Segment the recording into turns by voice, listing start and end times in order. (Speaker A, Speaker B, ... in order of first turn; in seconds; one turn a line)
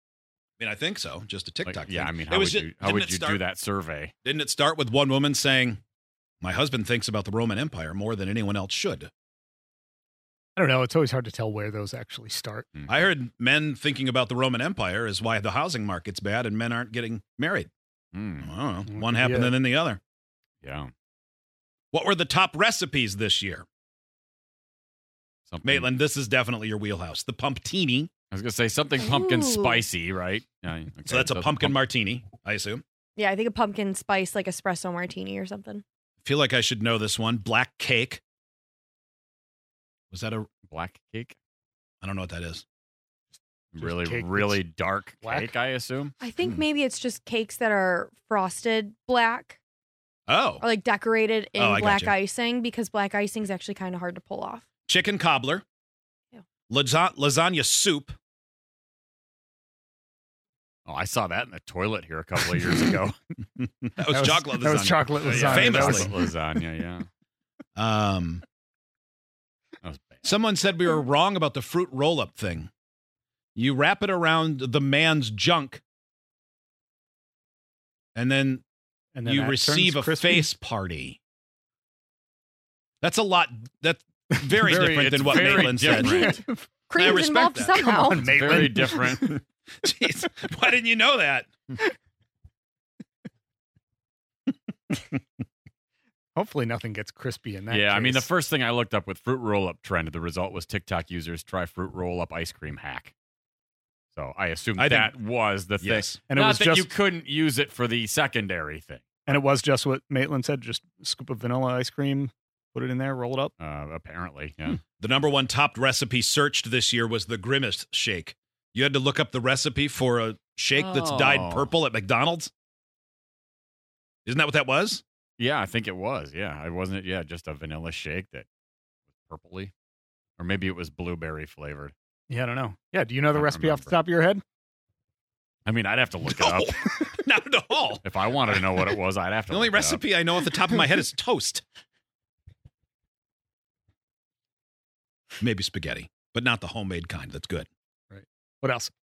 Speaker A: 0.6-3.4
Speaker B: 1.6-4.1
Speaker A: 4.2-5.8
Speaker A: 6.4-9.1
Speaker C: 10.6-12.7
Speaker B: 12.8-13.1
Speaker A: 12.9-17.7
Speaker B: 18.1-18.5
Speaker A: 18.4-20.0
Speaker C: 18.9-19.6
Speaker B: 20.6-20.9
Speaker A: 21.9-23.7
Speaker B: 25.5-25.9
Speaker A: 25.6-28.1
Speaker B: 28.3-31.8
Speaker D: 29.0-29.9
Speaker A: 31.1-32.8
Speaker D: 33.2-35.8
Speaker A: 36.2-38.2
Speaker A: 40.1-40.5
Speaker B: 40.7-41.4
Speaker A: 42.0-42.6
Speaker B: 43.7-46.1
Speaker C: 43.8-44.6
Speaker C: 45.2-45.5
Speaker D: 46.2-49.6
Speaker A: 50.3-50.6
Speaker D: 50.6-54.6
Speaker A: 51.6-52.1
Speaker A: 54.9-55.6
Speaker A: 56.7-58.2
Speaker B: 60.9-63.2
Speaker A: 63.9-66.1
Speaker C: 64.1-66.3
Speaker B: 65.2-67.1
Speaker A: 67.8-68.4
Speaker B: 69.8-70.4
Speaker A: 70.2-72.7
Speaker A: 73.5-75.8
Speaker A: 78.2-78.6
Speaker C: 79.1-80.5
Speaker A: 79.2-81.2
Speaker A: 83.0-86.4
Speaker C: 84.5-84.8
Speaker B: 84.6-86.2
Speaker C: 85.5-86.6
Speaker D: 85.9-88.3
Speaker A: 87.0-87.8
Speaker C: 87.6-89.4
Speaker B: 88.2-89.4
Speaker A: 88.9-91.6
Speaker C: 96.4-98.3
Speaker B: 97.7-103.1
Speaker B: 104.1-109.0
Speaker A: 104.8-105.1
Speaker A: 105.8-106.2
Speaker C: 106.3-106.9
Speaker C: 109.3-113.5
Speaker B: 113.6-114.8
Speaker A: 115.0-122.5
Speaker B: 120.7-121.7
Speaker A: 124.2-125.0
Speaker B: 125.4-128.5
Speaker B: 129.2-129.7
Speaker B: 130.4-131.9
Speaker C: 132.3-134.4
Speaker B: 133.3-134.0
Speaker B: 135.7-136.9
Speaker A: 136.3-138.7
Speaker B: 138.0-140.0
Speaker A: 139.5-141.6
Speaker A: 145.4-147.7
Speaker C: 148.1-148.9